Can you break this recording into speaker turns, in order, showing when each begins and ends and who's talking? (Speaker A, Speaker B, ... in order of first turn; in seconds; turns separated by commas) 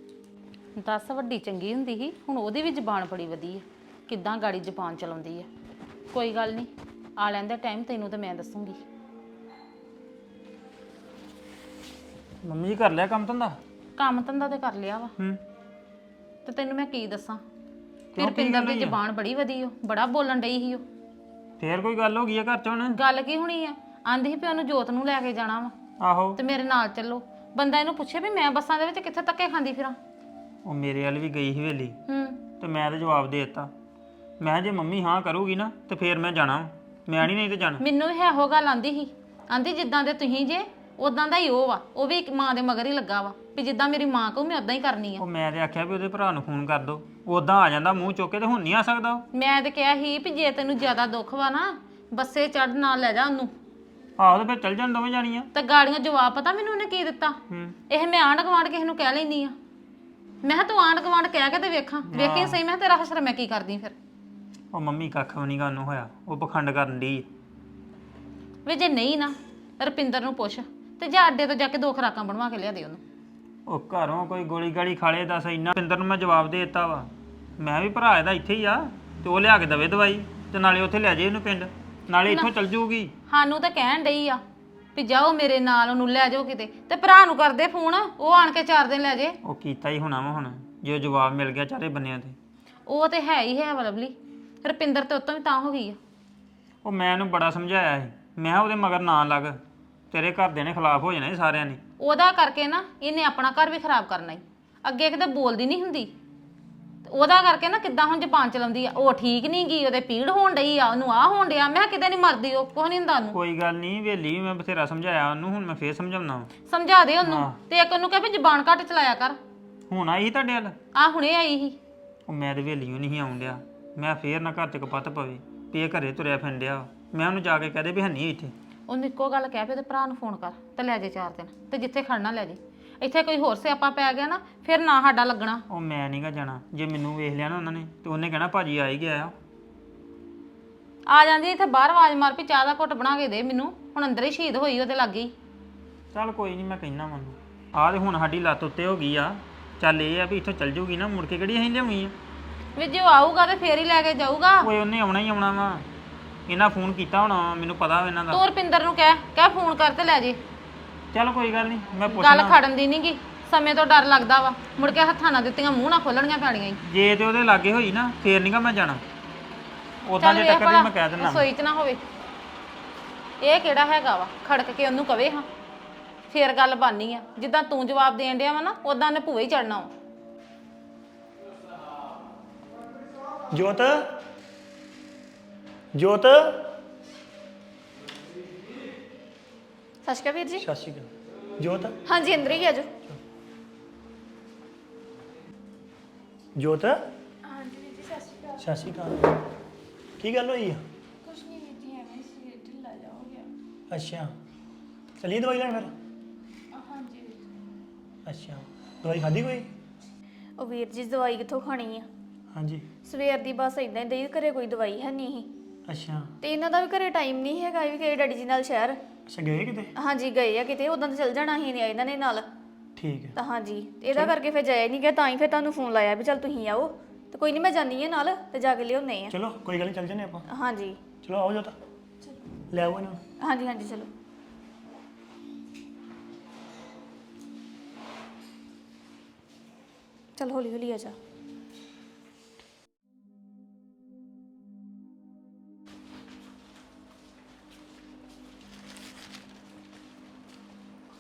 Speaker A: 0.8-5.5, Speaker A: 6.1-8.8, Speaker B: 12.4-13.6, Speaker A: 14.0-15.1, Speaker A: 16.4-17.4, Speaker B: 18.1-19.0, Speaker A: 18.2-20.8, Speaker B: 21.6-23.0, Speaker A: 22.9-25.7, Speaker B: 26.0-26.4, Speaker A: 26.4-30.0, Speaker B: 30.6-32.0, Speaker A: 32.1-32.4, Speaker B: 32.6-33.7, Speaker B: 34.4-37.8, Speaker A: 37.8-45.2, Speaker B: 45.2-49.2, Speaker A: 49.3-53.5, Speaker B: 54.2-55.5, Speaker A: 55.5-57.4, Speaker B: 57.5-57.8, Speaker A: 57.9-59.6, Speaker A: 60.4-64.0, Speaker B: 62.1-62.6, Speaker B: 64.7-67.3, Speaker A: 68.7-73.0, Speaker B: 73.7-83.1, Speaker A: 83.3-84.4, Speaker A: 85.0-89.4, Speaker B: 89.4-92.4, Speaker A: 92.9-96.0, Speaker B: 96.8-99.6, Speaker B: 100.1-101.8, Speaker A: 102.0-106.1, Speaker A: 107.0-113.4, Speaker B: 113.3-116.5, Speaker A: 116.7-119.4, Speaker B: 117.2-117.6, Speaker B: 119.9-120.8, Speaker A: 120.9-121.8, Speaker B: 122.3-128.5, Speaker A: 128.9-135.6, Speaker B: 135.7-139.3, Speaker A: 141.1-145.3, Speaker B: 146.1-152.2, Speaker A: 152.8-154.7, Speaker B: 154.6-155.8, Speaker B: 156.5-158.4, Speaker A: 158.3-160.4, Speaker B: 161.1-162.6, Speaker A: 162.1-166.8, Speaker B: 166.9-169.0, Speaker B: 170.1-171.5, Speaker A: 170.2-172.0, Speaker A: 173.4-175.5, Speaker A: 176.3-179.9, Speaker C: 183.5-184.1, Speaker C: 185.9-186.7, Speaker D: 190.1-190.7, Speaker C: 190.6-192.0, Speaker D: 192.1-192.9, Speaker C: 196.6-197.1, Speaker E: 197.5-198.6, Speaker C: 198.6-199.4, Speaker C: 200.2-200.8, Speaker E: 201.2-203.5, Speaker C: 203.9-204.3, Speaker C: 205.2-205.9, Speaker E: 206.7-207.5, Speaker C: 208.3-209.7, Speaker D: 210.6-212.1, Speaker C: 212.5-212.9, Speaker D: 213.1-215.5, Speaker C: 215.9-216.3, Speaker D: 216.4-219.0, Speaker C: 219.3-219.9, Speaker D: 220.0-222.5, Speaker C: 223.0-223.4, Speaker D: 223.4-229.3, Speaker C: 229.3-230.4, Speaker D: 230.5-231.0, Speaker C: 231.2-231.8, Speaker C: 232.7-233.2, Speaker D: 233.4-234.1, Speaker D: 240.4-241.2